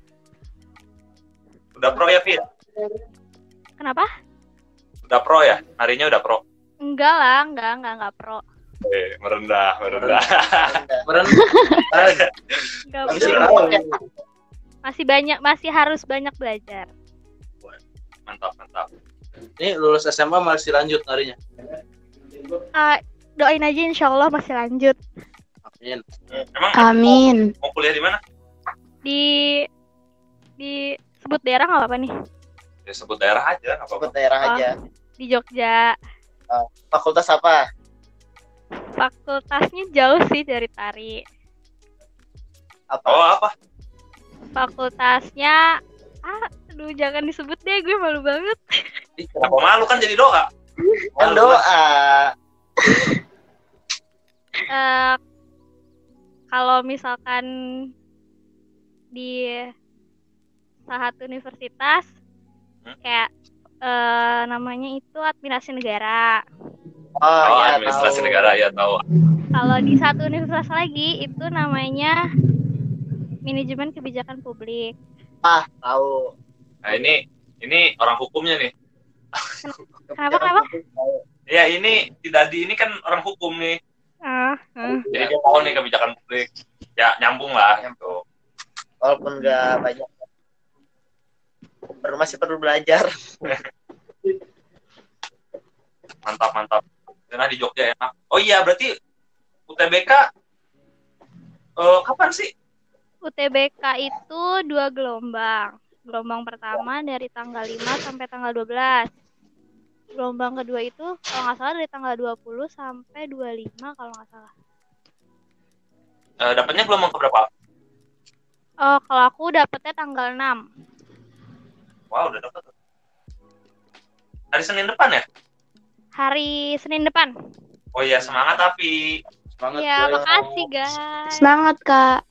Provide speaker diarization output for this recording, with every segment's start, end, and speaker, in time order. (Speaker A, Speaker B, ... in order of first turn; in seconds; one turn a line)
Speaker A: 1.7-2.4
Speaker B: 3.8-4.1
Speaker A: 5.1-6.4
Speaker B: 6.8-8.4
Speaker A: 8.8-10.7
Speaker C: 9.9-10.3
Speaker D: 10.5-11.0
Speaker C: 11.1-12.3
Speaker E: 11.3-11.8
Speaker B: 12.9-13.5
Speaker D: 13.1-14.0
Speaker C: 13.1-13.8
Speaker A: 13.1-13.7
Speaker B: 14.8-16.9
Speaker A: 18.3-18.9
Speaker C: 19.6-21.4
Speaker B: 22.7-25.0
Speaker C: 25.6-26.0
Speaker A: 26.5-28.2
Speaker E: 26.7-27.5
Speaker B: 29.0-29.6
Speaker B: 30.6-32.1
Speaker A: 32.9-34.1
Speaker D: 33.9-34.7
Speaker B: 34.4-34.7
Speaker B: 35.2-35.9
Speaker D: 36.5-37.6
Speaker B: 39.0-41.2
Speaker D: 42.9-43.2
Speaker A: 43.0-43.5
Speaker B: 44.5-45.6
Speaker B: 46.2-48.6
Speaker A: 49.2-50.5
Speaker D: 49.4-50.0
Speaker D: 51.1-52.3
Speaker C: 51.2-51.6
Speaker B: 54.7-55.2
Speaker B: 56.5-57.4
Speaker B: 59.1-59.6
Speaker B: 60.9-62.1
Speaker B: 63.8-66.4
Speaker D: 67.2-68.5
Speaker A: 67.4-69.0
Speaker B: 69.5-72.1
Speaker B: 73.5-74.9
Speaker D: 75.4-76.2
Speaker A: 76.8-78.7
Speaker B: 79.6-80.7
Speaker D: 80.0-81.2
Speaker A: 81.5-83.8
Speaker B: 84.2-85.0
Speaker C: 84.9-85.7
Speaker A: 85.1-88.2
Speaker D: 87.8-88.1
Speaker D: 89.0-90.1
Speaker D: 92.0-93.1
Speaker A: 96.2-98.9
Speaker A: 99.7-100.2
Speaker A: 101.8-102.5
Speaker B: 103.2-109.0
Speaker B: 110.2-114.5
Speaker A: 116.4-117.5
Speaker B: 118.8-120.6
Speaker A: 122.1-122.7
Speaker A: 124.5-125.2
Speaker B: 126.2-127.3
Speaker A: 127.9-129.1
Speaker C: 128.2-128.7
Speaker C: 129.6-130.3
Speaker B: 129.7-131.4
Speaker D: 130.1-130.6
Speaker E: 131.3-132.2